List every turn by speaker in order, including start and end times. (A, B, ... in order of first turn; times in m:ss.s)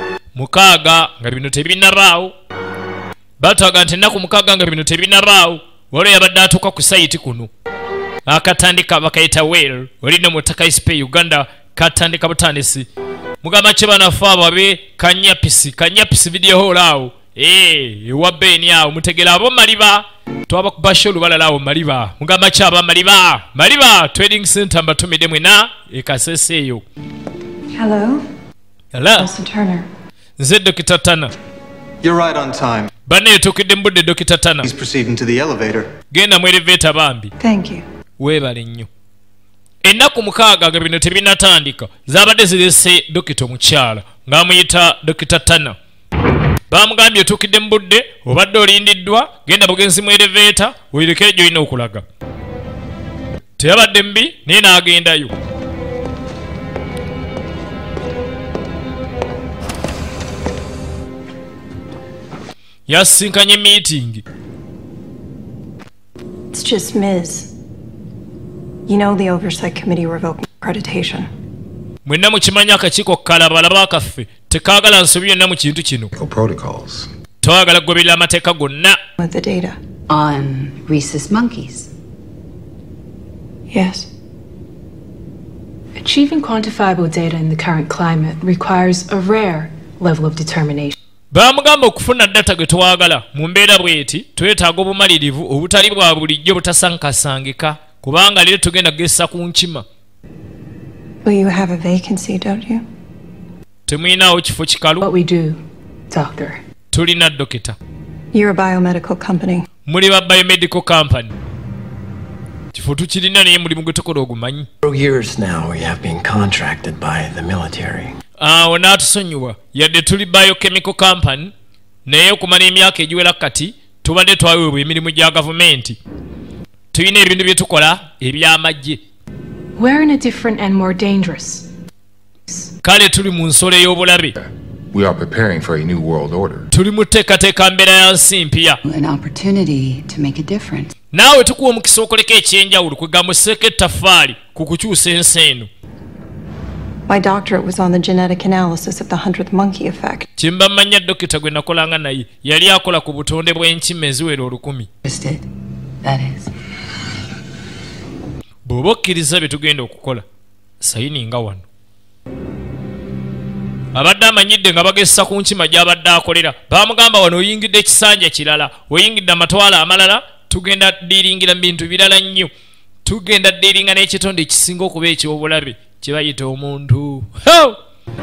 0:00.4-0:02.3 A
0:03.4-0:07.5 A
0:08.3-0:12.9 A
0:13.4-0:26.8 A
0:27.8-0:28.2 B
0:28.9-0:29.3 A
0:29.2-0:29.9 B
0:30.4-0:31.3 A
0:32.0-0:32.9 C
0:33.1-0:34.7 A
0:34.6-0:35.9 C
0:36.1-0:37.3 A
0:37.4-0:37.8 B
0:38.2-0:38.9 A
0:39.8-0:45.8 A
0:46.7-0:52.0 A
0:53.6-0:55.3 A
1:02.9-1:04.2 A
1:06.5-1:07.5 B
1:08.9-1:11.3 B
1:12.0-1:16.1 A
1:16.1-1:17.1 D
1:17.4-1:19.0 A
1:19.2-1:19.8 B
1:20.1-1:21.9 E
1:23.7-1:24.1 B
1:26.0-1:30.9 F
1:31.3-1:39.8 A
1:41.2-1:42.9 B
1:43.9-1:45.0 A
1:45.0-1:46.6 F
1:46.9-1:47.8 A
1:48.3-1:49.7 B
1:49.9-1:51.3 A
1:52.7-1:54.7 A
1:54.8-1:58.2 G
1:58.4-2:01.5 A
2:02.1-2:06.0 A
2:06.9-2:09.0 A
2:09.8-2:11.7 F
2:12.8-2:14.4 A
2:14.4-2:16.7 D
2:16.7-2:18.8 A
2:18.8-2:20.9 E
2:21.1-2:25.7 A
2:27.1-2:30.2 B
2:30.4-2:34.9 A
2:35.0-2:35.4 E
2:36.0-2:36.5 E
2:38.7-2:40.2 A
2:40.8-2:41.6 A
2:43.9-2:52.5 A
2:53.0-2:57.8 A